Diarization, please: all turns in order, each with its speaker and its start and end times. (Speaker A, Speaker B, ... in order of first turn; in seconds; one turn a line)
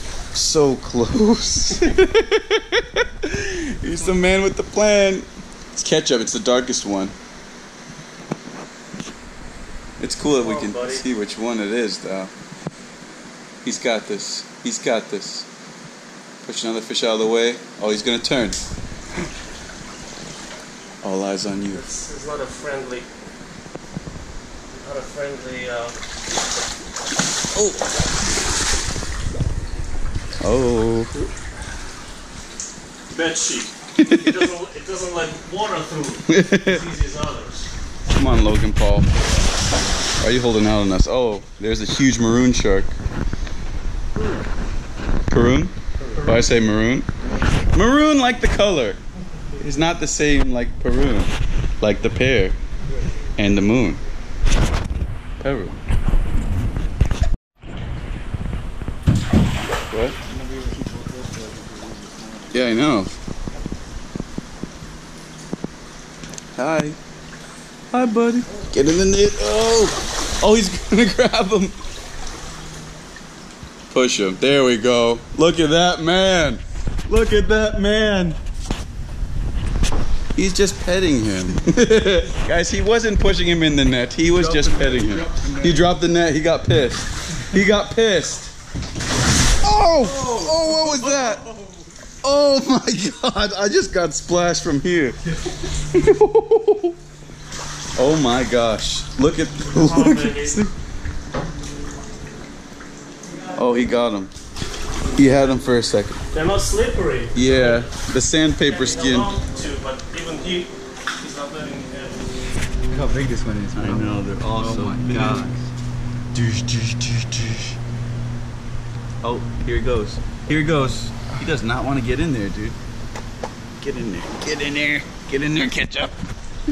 Speaker A: 0.3-7.1
Speaker A: 10.0-12.3
Speaker B: 10.4-11.1
Speaker A: 13.6-15.5
Speaker A: 16.4-18.6
Speaker A: 21.0-21.9
Speaker B: 21.7-23.1
Speaker B: 24.7-26.0
Speaker A: 30.4-31.3
Speaker B: 33.1-37.7
Speaker A: 36.3-36.8
Speaker A: 38.1-39.1
Speaker A: 40.2-42.9
Speaker A: 45.3-47.1
Speaker B: 46.1-46.5
Speaker A: 47.7-49.0
Speaker A: 49.6-52.6
Speaker A: 53.4-54.0
Speaker A: 55.4-55.8
Speaker A: 59.9-60.2
Speaker C: 60.3-62.5
Speaker A: 62.5-63.1
Speaker A: 66.6-67.0
Speaker A: 67.9-71.8
Speaker A: 73.9-78.4
Speaker A: 80.4-88.5
Speaker C: 84.3-85.8
Speaker A: 89.6-91.5
Speaker C: 90.0-91.7
Speaker A: 92.2-95.2
Speaker A: 95.8-97.0
Speaker A: 98.0-100.7
Speaker B: 99.7-100.6
Speaker A: 103.5-104.3
Speaker A: 105.2-106.2
Speaker B: 106.3-107.9
Speaker A: 107.3-109.3
Speaker B: 108.6-112.3
Speaker C: 112.9-115.7
Speaker A: 113.8-115.5
Speaker A: 116.3-117.8
Speaker A: 119.2-122.8
Speaker A: 123.8-126.2